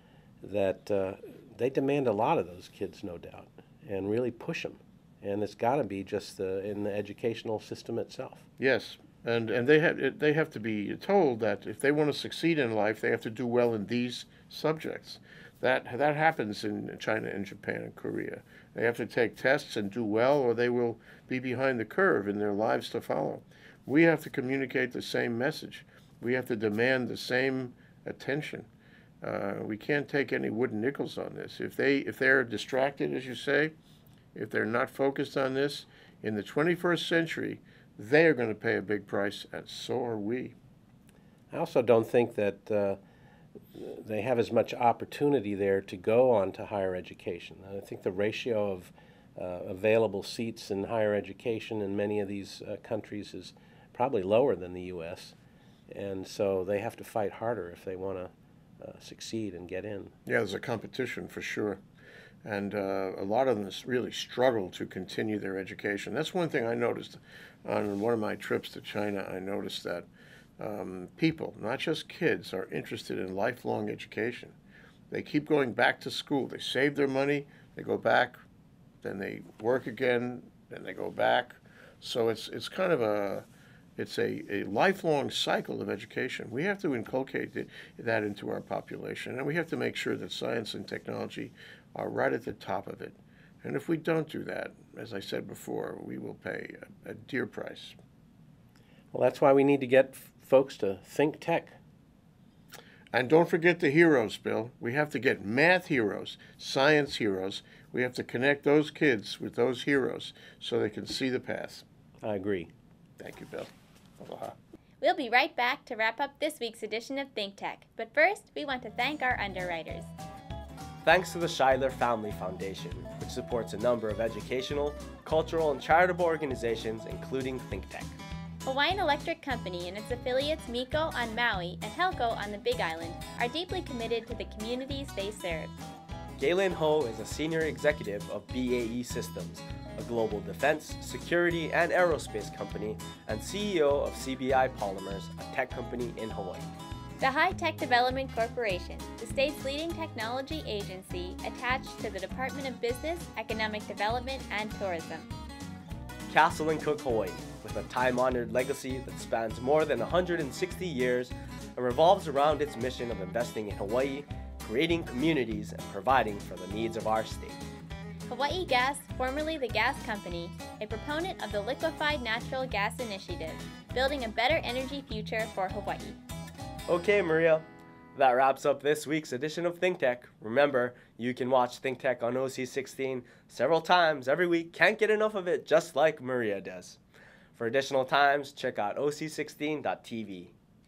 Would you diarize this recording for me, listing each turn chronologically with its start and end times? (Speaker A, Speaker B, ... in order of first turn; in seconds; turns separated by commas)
Speaker A: 0.4-8.4, Speaker B: 8.6-28.7, Speaker B: 29.2-33.7, Speaker B: 34.3-40.5, Speaker A: 41.5-43.0, Speaker A: 43.7-55.3, Speaker A: 55.9-60.1, Speaker B: 60.2-61.8, Speaker B: 62.4-70.1, Speaker B: 70.6-74.5, Speaker B: 75.1-78.4, Speaker B: 79.0-98.0, Speaker A: 99.1-101.8, Speaker B: 103.1-111.8, Speaker A: 112.2-112.7, Speaker B: 113.2-114.5, Speaker C: 115.0-120.1, Speaker D: 121.0-128.2, Speaker C: 128.6-135.7, Speaker D: 136.4-146.7, Speaker C: 147.2-155.3, Speaker D: 156.3-167.6, Speaker C: 168.3-176.2, Speaker D: 176.9-187.0, Speaker D: 187.5-190.5